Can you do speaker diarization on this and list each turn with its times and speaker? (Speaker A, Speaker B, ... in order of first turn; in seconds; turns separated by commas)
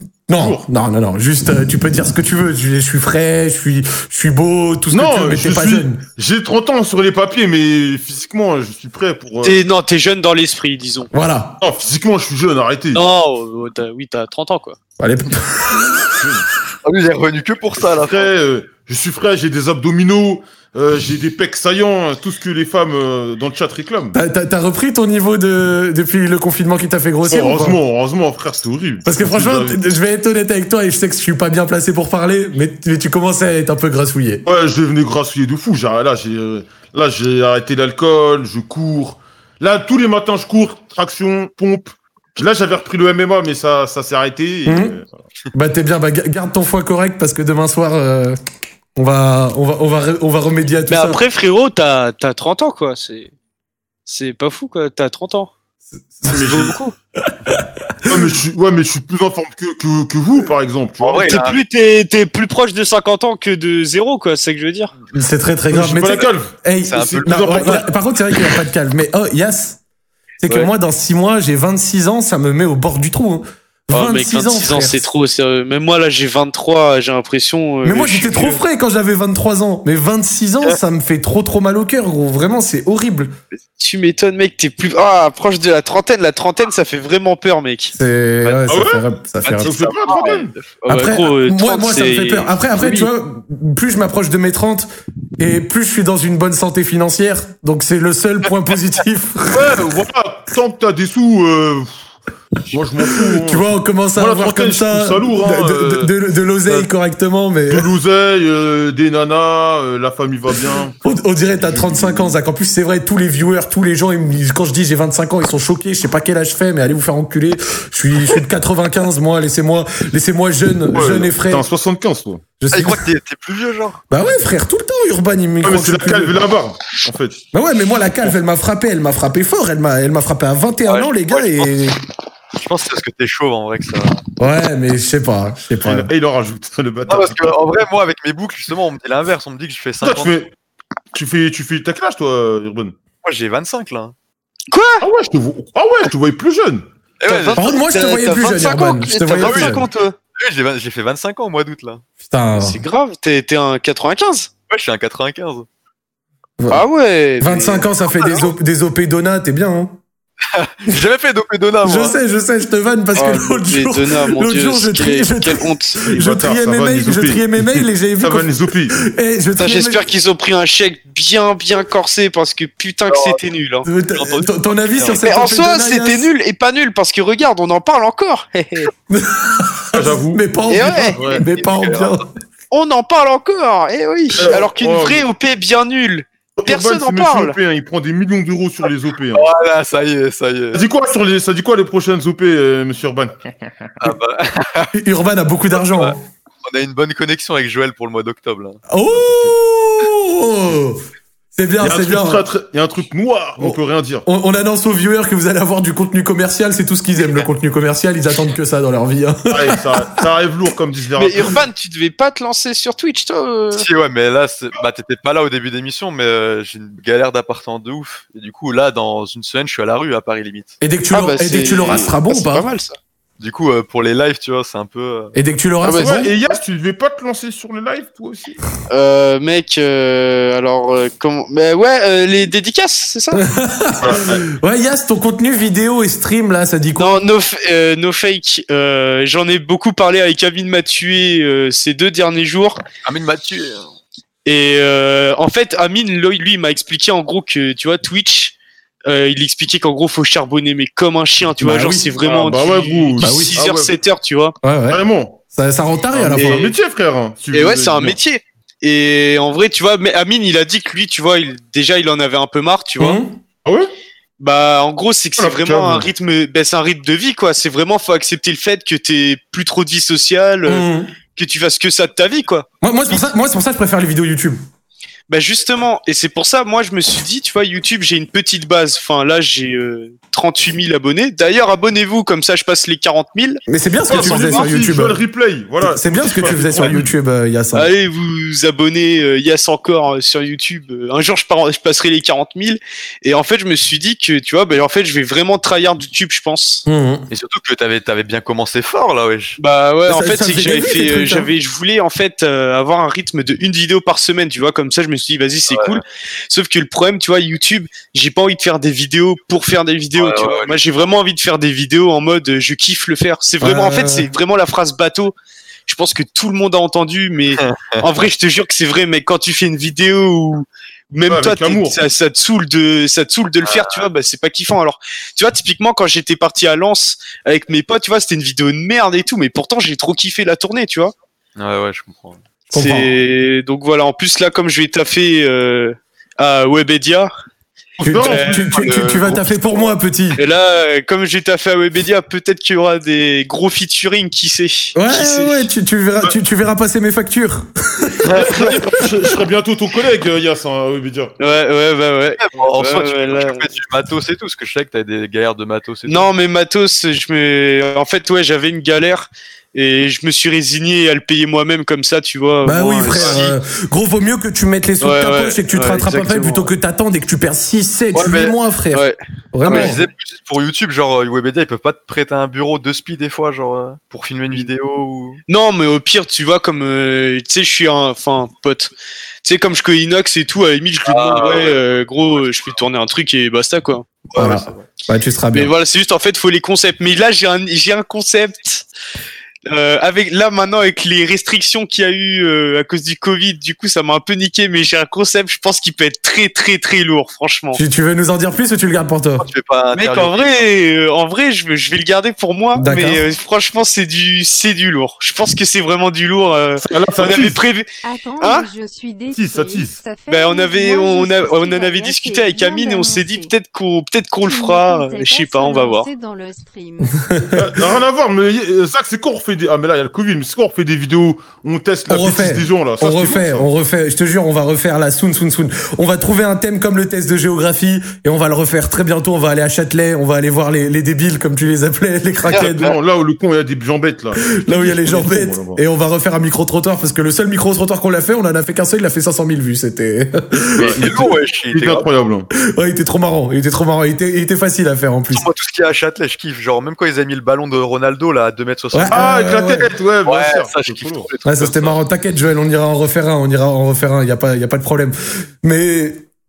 Speaker A: 0.3-6.0, Speaker B: 0.4-0.6, Speaker B: 4.9-9.6, Speaker C: 9.4-11.1, Speaker A: 11.1-11.6, Speaker B: 11.6-13.0, Speaker C: 12.9-14.8, Speaker A: 15.0-16.1, Speaker B: 16.2-16.5, Speaker D: 16.8-18.3, Speaker B: 17.9-24.1, Speaker A: 24.1-27.8, Speaker B: 27.3-29.8, Speaker A: 29.0-34.5, Speaker B: 34.5-45.1, Speaker A: 44.7-45.0, Speaker A: 45.5-48.4, Speaker A: 49.0-51.2, Speaker C: 50.9-53.3, Speaker C: 54.1-55.5, Speaker B: 56.3-56.8, Speaker C: 56.3-57.0, Speaker A: 57.3-58.1, Speaker B: 58.1-61.4, Speaker D: 61.0-61.6, Speaker C: 61.2-64.9, Speaker A: 65.1-69.8, Speaker B: 65.7-67.9, Speaker D: 66.9-67.9, Speaker A: 70.4-75.1, Speaker C: 73.9-78.6, Speaker A: 77.8-83.3, Speaker C: 83.8-88.0, Speaker A: 88.0-89.7, Speaker B: 88.7-89.0, Speaker D: 89.4-90.7, Speaker B: 89.6-90.5, Speaker C: 90.1-93.1, Speaker A: 90.9-99.6, Speaker B: 99.5-102.1, Speaker B: 102.7-106.1, Speaker A: 103.4-107.9, Speaker B: 107.7-111.0, Speaker A: 111.0-121.7, Speaker B: 111.6-112.4, Speaker B: 120.9-122.4, Speaker A: 122.6-123.0, Speaker D: 122.7-124.0, Speaker A: 124.1-126.4, Speaker B: 125.6-127.5, Speaker A: 127.5-132.0, Speaker D: 130.9-131.7, Speaker D: 132.6-134.2, Speaker A: 134.4-136.1, Speaker B: 135.8-137.6, Speaker D: 137.1-140.4, Speaker B: 140.0-140.5, Speaker B: 141.1-143.0, Speaker D: 143.2-144.1, Speaker C: 144.7-145.0, Speaker B: 145.0-146.9, Speaker D: 147.2-147.8, Speaker C: 147.3-150.2, Speaker A: 147.5-149.9, Speaker D: 149.4-152.0, Speaker A: 152.2-152.8, Speaker C: 152.5-154.5, Speaker D: 154.7-155.7, Speaker A: 156.6-156.8, Speaker C: 156.7-158.4, Speaker A: 157.4-160.0, Speaker D: 160.5-162.2, Speaker A: 161.8-170.0, Speaker C: 163.2-166.0, Speaker B: 166.1-168.9, Speaker C: 169.6-173.9, Speaker D: 173.1-173.4, Speaker A: 173.9-176.3, Speaker D: 174.1-175.2, Speaker C: 175.2-178.9, Speaker A: 179.1-182.2, Speaker B: 179.9-180.4, Speaker C: 180.7-181.4, Speaker D: 180.9-182.2, Speaker C: 182.7-187.6, Speaker B: 184.4-185.3, Speaker B: 186.6-189.5, Speaker D: 189.3-190.8, Speaker B: 190.7-193.3, Speaker D: 194.0-194.9, Speaker A: 194.9-196.2, Speaker D: 195.9-198.8, Speaker A: 198.9-201.0, Speaker B: 199.1-199.5, Speaker A: 201.6-202.4, Speaker B: 201.8-204.2, Speaker A: 203.6-209.8, Speaker B: 209.5-211.6, Speaker C: 211.2-213.9, Speaker D: 213.7-220.8, Speaker A: 220.8-222.7, Speaker C: 221.1-223.0, Speaker D: 223.4-225.3, Speaker A: 225.3-226.3, Speaker C: 225.8-226.1, Speaker B: 225.9-228.6, Speaker C: 228.9-233.4, Speaker A: 233.4-237.2, Speaker B: 234.0-234.4, Speaker C: 237.0-242.8, Speaker D: 243.1-243.8, Speaker C: 244.4-254.6, Speaker A: 251.6-252.1, Speaker B: 252.2-253.9, Speaker A: 253.2-253.6, Speaker A: 254.6-256.7, Speaker B: 254.9-255.4, Speaker B: 256.1-258.2, Speaker C: 256.3-256.7, Speaker C: 257.5-263.2, Speaker A: 263.0-263.4, Speaker B: 263.6-263.9, Speaker C: 264.4-273.2, Speaker B: 265.4-266.1, Speaker A: 270.7-271.1, Speaker A: 272.8-274.6, Speaker C: 275.3-283.6, Speaker A: 283.7-285.2, Speaker B: 284.1-287.1, Speaker C: 284.2-284.6, Speaker A: 285.8-287.9, Speaker C: 287.7-296.9, Speaker A: 296.9-297.3, Speaker D: 297.3-299.6, Speaker C: 299.6-315.4, Speaker A: 300.1-301.5, Speaker D: 305.7-306.0, Speaker D: 310.2-310.8, Speaker A: 313.6-314.3, Speaker C: 315.9-331.1, Speaker D: 317.6-318.1, Speaker B: 321.3-322.0, Speaker D: 323.6-324.1, Speaker D: 331.6-332.4, Speaker A: 332.7-333.1, Speaker C: 332.7-337.3, Speaker A: 338.0-340.4, Speaker B: 338.0-338.5, Speaker C: 338.2-338.7, Speaker D: 338.5-339.9, Speaker C: 340.4-345.7, Speaker A: 344.9-348.2, Speaker B: 348.2-351.4, Speaker C: 351.4-353.7, Speaker D: 352.4-356.3, Speaker C: 356.1-363.6, Speaker A: 362.6-370.0, Speaker D: 363.2-363.5, Speaker C: 365.0-366.7, Speaker D: 368.1-368.6, Speaker C: 368.9-370.0, Speaker D: 369.7-375.4, Speaker C: 375.5-378.9, Speaker C: 379.4-384.1, Speaker D: 381.1-382.8, Speaker D: 384.3-384.9, Speaker A: 384.4-385.7, Speaker C: 385.5-388.9, Speaker C: 389.7-397.8, Speaker A: 397.7-399.5, Speaker D: 399.4-400.7, Speaker C: 399.9-407.9, Speaker A: 402.8-403.2, Speaker B: 406.8-407.6, Speaker E: 408.0-413.5, Speaker C: 408.4-408.7, Speaker B: 409.3-410.0, Speaker C: 410.3-416.1, Speaker E: 414.4-417.5, Speaker A: 417.3-417.6, Speaker B: 417.6-423.7, Speaker A: 422.1-432.9, Speaker B: 432.5-435.8, Speaker D: 432.5-432.9, Speaker A: 434.6-441.3, Speaker B: 440.8-442.5, Speaker D: 440.8-442.1, Speaker A: 442.7-445.5, Speaker D: 445.3-449.3, Speaker A: 448.9-449.9, Speaker B: 449.1-451.3, Speaker D: 450.2-452.0, Speaker A: 451.4-456.3